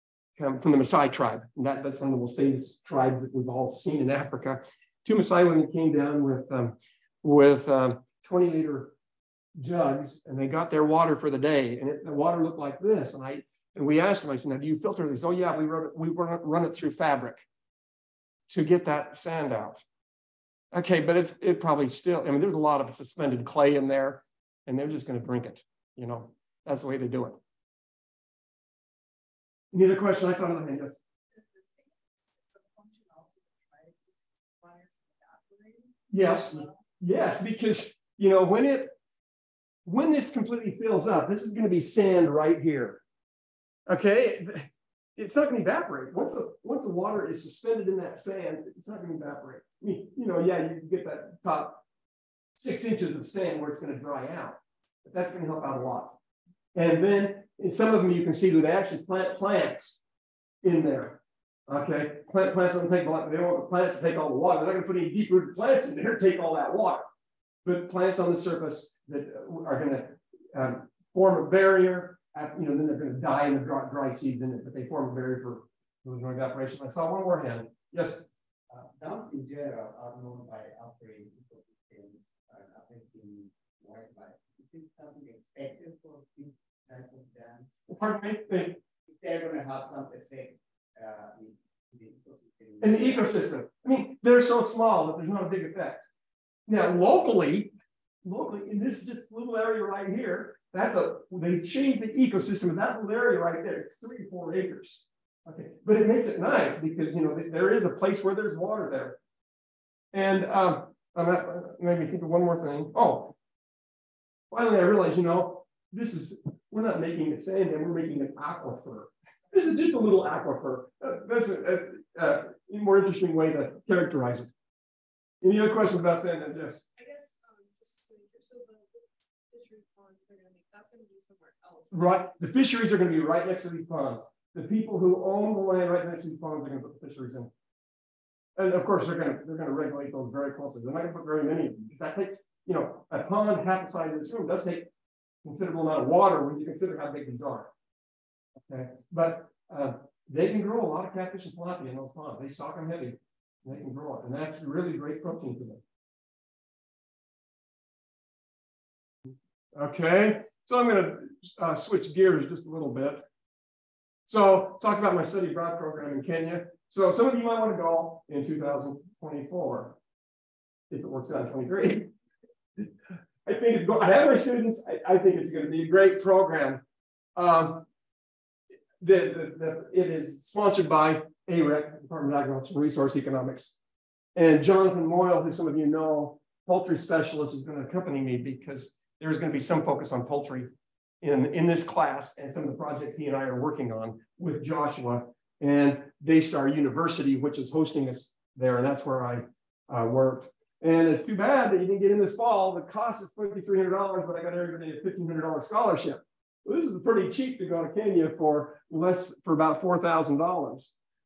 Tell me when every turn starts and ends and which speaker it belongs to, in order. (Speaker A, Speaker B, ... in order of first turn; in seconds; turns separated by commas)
Speaker A: 0.3-8.9, Speaker A: 9.6-17.5, Speaker A: 18.5-19.8, Speaker A: 20.7-27.4, Speaker A: 29.7-31.0, Speaker B: 31.3-36.7, Speaker A: 36.1-38.9, Speaker A: 39.8-43.0, Speaker A: 43.9-51.8, Speaker A: 52.5-56.1, Speaker A: 56.7-60.0, Speaker A: 60.6-67.1, Speaker A: 67.6-78.2, Speaker C: 78.7-87.7, Speaker A: 87.9-88.8, Speaker C: 89.1-93.2, Speaker A: 92.8-96.0, Speaker A: 96.7-109.2, Speaker A: 110.1-113.3, Speaker A: 114.5-124.5, Speaker A: 125.4-126.8, Speaker B: 126.9-132.2, Speaker A: 131.9-137.5, Speaker A: 138.6-144.9, Speaker A: 145.4-147.7, Speaker A: 148.6-155.8, Speaker A: 159.7-163.2, Speaker A: 164.2-170.0, Speaker A: 170.9-172.1, Speaker A: 173.4-176.8, Speaker A: 177.3-177.8, Speaker A: 179.0-183.8, Speaker A: 184.3-210.9